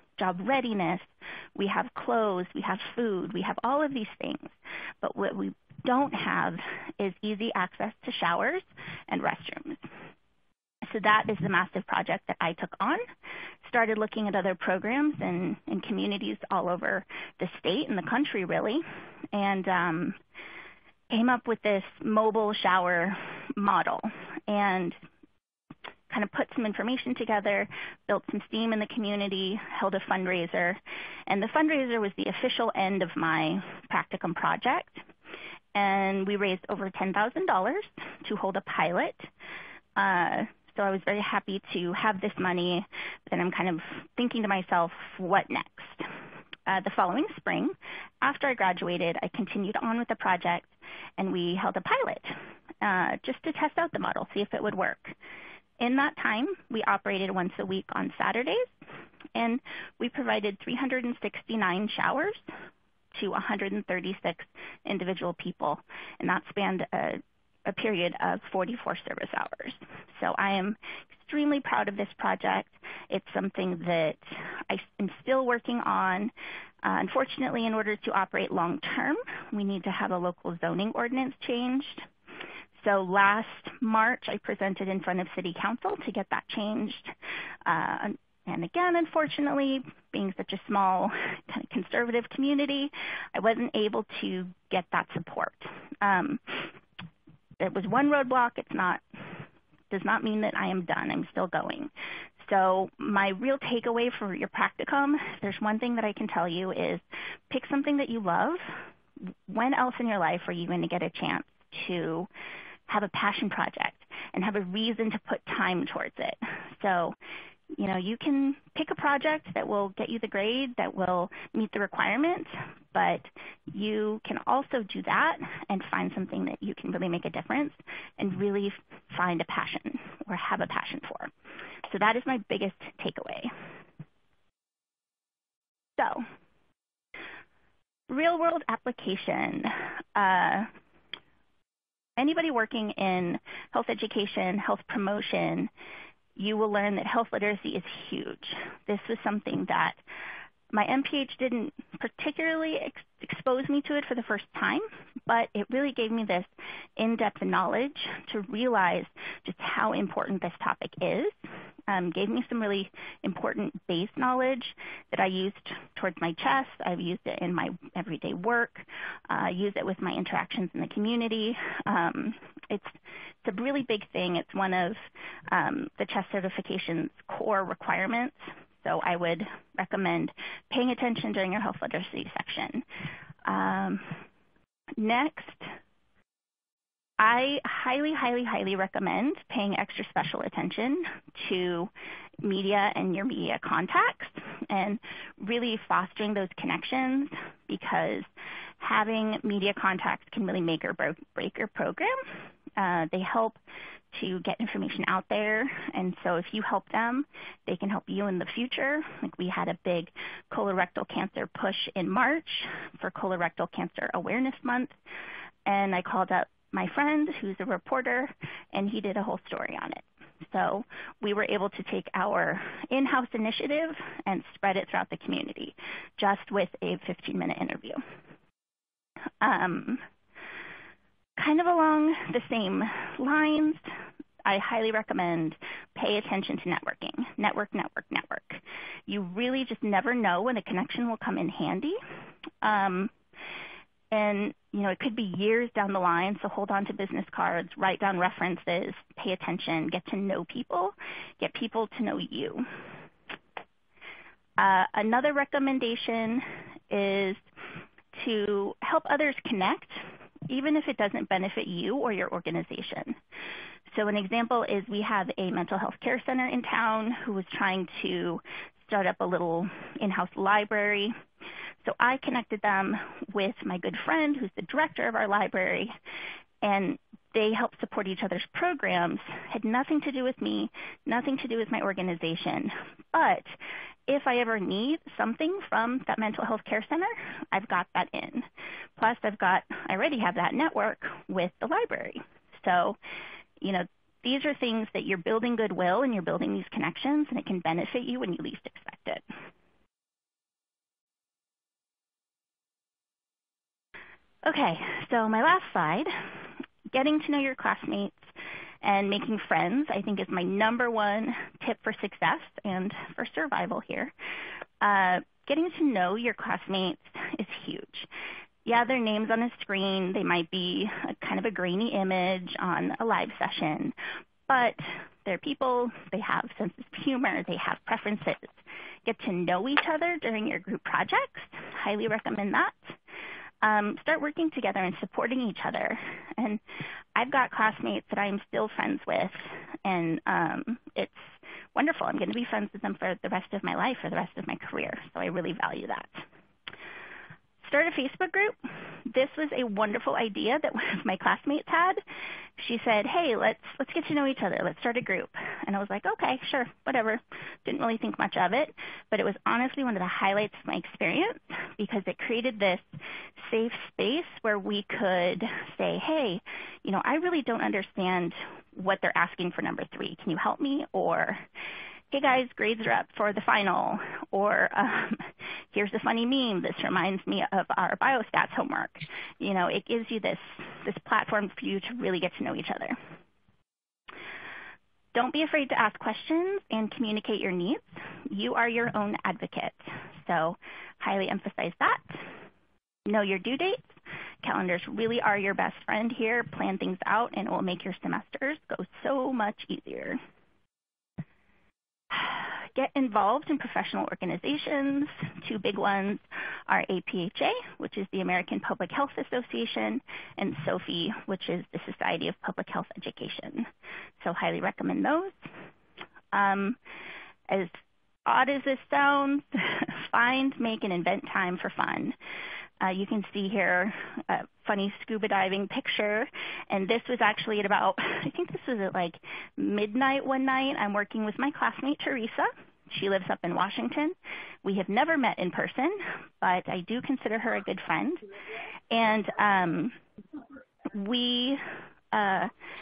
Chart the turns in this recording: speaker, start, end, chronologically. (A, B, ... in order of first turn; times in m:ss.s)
0:00.2-0:09.8 A
0:10.8-0:13.0 A
0:13.6-0:20.2 A
0:21.1-0:25.0 A
0:26.1-0:35.0 A
0:35.7-0:39.3 A
0:40.0-0:46.0 A
0:46.7-0:55.2 A
0:55.8-0:58.7 A
0:59.3-1:02.4 A
1:03.2-1:16.3 A
1:16.8-1:22.1 A
1:22.8-1:27.1 A
1:27.6-1:36.7 A
1:37.6-1:39.0 A
1:39.9-1:48.6 A
1:49.5-1:52.3 A
1:52.9-1:57.1 A
1:57.8-2:11.3 A
2:11.9-2:13.5 A
2:16.0-2:16.2 A
2:18.1-2:20.7 A
2:22.2-2:25.7 A
2:26.4-2:30.0 A
2:30.7-2:41.3 A
2:41.9-2:55.0 A
2:55.5-3:02.8 A
3:03.5-3:04.2 A
3:05.0-3:05.7 A
3:07.2-3:11.9 A
3:12.4-3:18.3 A
3:18.8-3:22.1 A
3:22.8-3:23.6 A
3:24.1-3:35.0 A
3:35.6-3:48.0 A
3:49.4-3:50.0 A
3:51.4-3:53.8 A
3:54.4-4:02.0 A
4:02.6-4:03.1 A
4:04.1-4:12.6 A
4:14.6-4:17.4 A
4:18.2-4:23.2 A
4:23.9-4:31.1 A
4:31.8-4:35.9 A
4:36.6-4:43.5 A
4:44.1-4:48.4 A
4:49.0-4:53.0 A
4:53.6-4:59.2 A
5:04.4-5:06.1 A
5:06.9-5:08.3 A
5:08.8-5:14.1 A
5:14.8-5:18.1 A
5:18.6-5:23.9 A
5:24.5-5:33.0 A
5:33.6-5:36.6 A
5:37.2-5:46.2 A
5:47.6-5:48.6 A
5:49.1-5:52.0 A
5:52.6-6:02.8 A
6:03.4-6:11.4 A
6:12.1-6:23.0 A
6:25.1-6:32.2 A
6:33.1-6:33.9 A
6:34.4-6:40.2 A
6:42.1-6:53.7 A
6:54.2-6:55.4 A
6:56.3-6:56.8 A
6:57.5-7:02.1 A
7:02.8-7:18.2 A
7:18.9-7:20.0 A
7:20.9-7:21.6 A
7:22.1-7:22.5 A